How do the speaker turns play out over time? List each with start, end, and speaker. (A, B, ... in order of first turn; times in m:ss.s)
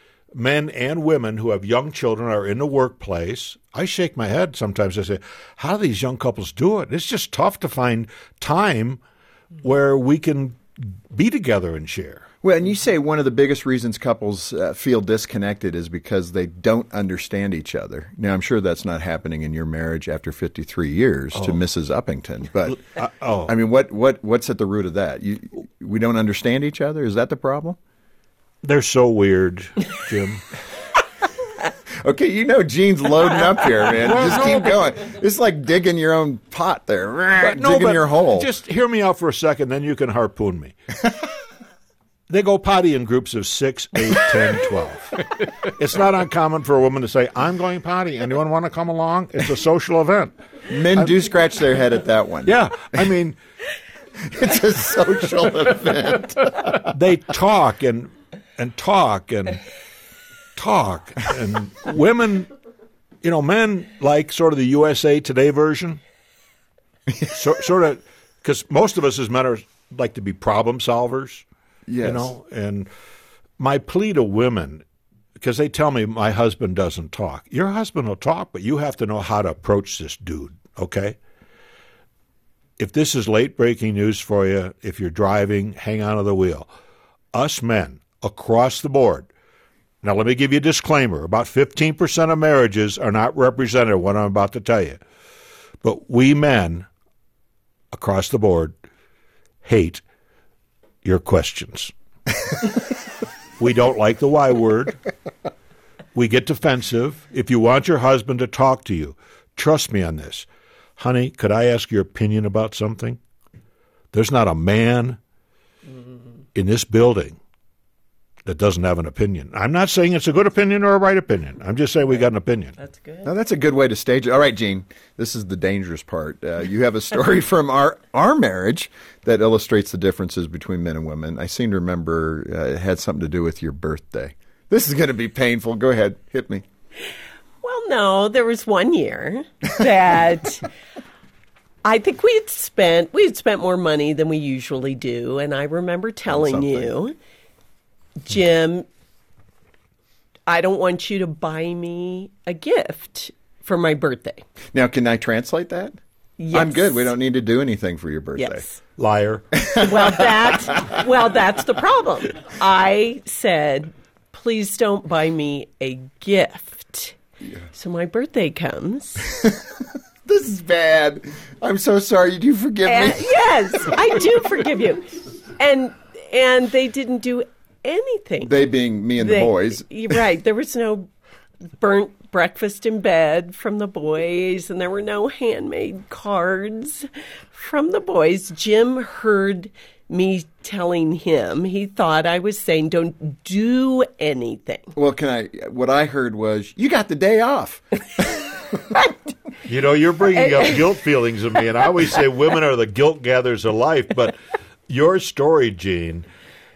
0:00.3-0:09.0 A
0:09.6-0:12.3 A
0:12.4-0:22.8 B
0:22.7-0:23.5 A
0:23.5-0:27.8 B
0:28.6-0:30.6 A
0:32.0-0:38.5 B
0:34.0-0:34.8 A
0:37.4-0:40.7 A
0:42.3-0:50.3 A
0:50.7-0:53.1 B
0:52.4-0:53.4 A
0:54.2-0:56.9 B
0:56.9-0:59.6 A
1:00.6-1:02.5 A
1:03.2-1:06.0 A
1:07.3-1:11.4 A
1:11.9-1:12.3 B
1:12.0-1:12.9 A
1:13.6-1:14.8 A
1:15.4-1:21.2 A
1:22.8-1:26.7 A
1:27.3-1:29.3 A
1:30.0-1:35.0 A
1:35.8-1:36.9 A
1:37.9-1:38.8 A
1:39.6-1:40.0 A
1:41.0-1:41.9 A
1:43.6-1:45.0 A
1:46.1-1:53.2 A
1:54.1-1:55.2 A
1:56.5-1:57.4 A
1:58.4-2:02.7 A
2:02.8-2:03.3 C
2:03.2-2:16.6 B
2:17.6-2:20.6 C
2:21.8-2:27.1 C
2:26.3-2:26.9 B
2:28.2-2:28.9 C
2:30.5-2:34.4 C
2:34.7-2:36.0 B
2:36.4-2:37.1 C
2:36.5-2:38.6 B
2:38.4-2:38.8 C
2:39.0-2:39.7 A
2:39.7-2:40.4 B
2:39.8-2:47.2 C
2:47.7-2:49.4 C
2:50.2-2:54.0 B
2:52.8-2:58.6 C
2:58.4-2:59.8 B
2:59.2-3:01.1 C
3:01.8-3:14.9 C
3:14.9-3:18.8 B
3:19.6-3:24.4 A
3:20.3-3:20.8 C
3:24.9-3:26.2 A